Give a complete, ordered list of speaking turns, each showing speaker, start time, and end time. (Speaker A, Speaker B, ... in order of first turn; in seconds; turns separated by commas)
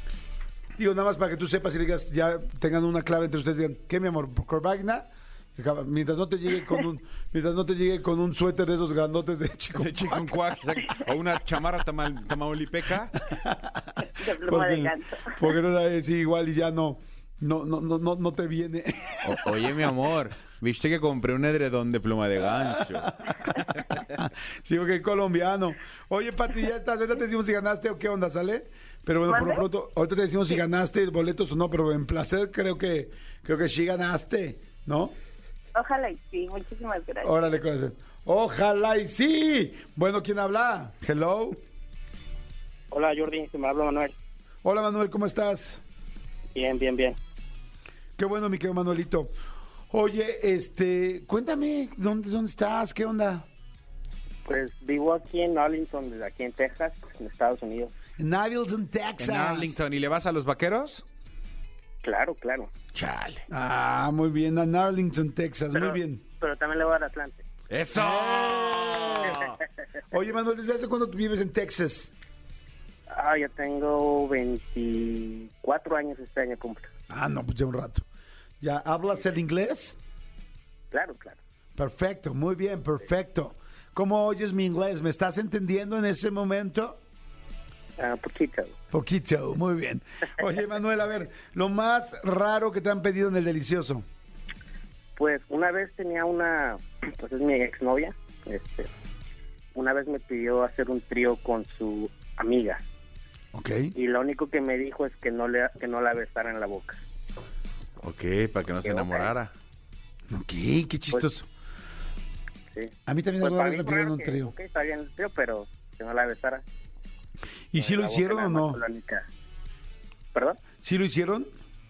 Speaker A: 0.8-10.3, Speaker B: 9.7-13.2, Speaker A: 13.3-13.8, Speaker C: 14.1-15.5, Speaker A: 14.4-19.9, Speaker B: 19.2-24.0, Speaker A: 22.6-23.6, Speaker A: 24.1-35.1, Speaker C: 29.3-29.6, Speaker C: 35.7-37.3, Speaker A: 37.2-41.6, Speaker D: 42.9-44.1, Speaker A: 44.6-45.8, Speaker D: 46.5-47.2, Speaker A: 48.2-49.3, Speaker A: 49.9-53.5, Speaker D: 54.5-57.9, Speaker A: 58.2-59.8, Speaker B: 59.2-61.0, Speaker D: 62.0-62.7, Speaker B: 62.9-63.4, Speaker A: 63.5-66.2, Speaker D: 65.7-67.4, Speaker B: 67.7-69.6, Speaker A: 67.9-69.4, Speaker A: 70.1-72.1, Speaker D: 73.1-76.9, Speaker A: 77.1-78.0, Speaker A: 78.6-80.0, Speaker D: 80.9-81.4, Speaker A: 81.8-87.0, Speaker D: 88.0-88.8, Speaker A: 88.9-94.0, Speaker D: 95.2-98.9, Speaker D: 99.7-102.8, Speaker A: 103.5-103.9, Speaker D: 103.9-107.0, Speaker B: 108.0-109.5, Speaker D: 108.8-109.3, Speaker A: 110.3-111.5, Speaker D: 112.7-116.6, Speaker A: 113.1-114.5, Speaker A: 117.7-118.8, Speaker D: 117.8-119.2, Speaker D: 120.3-120.6, Speaker A: 120.8-121.5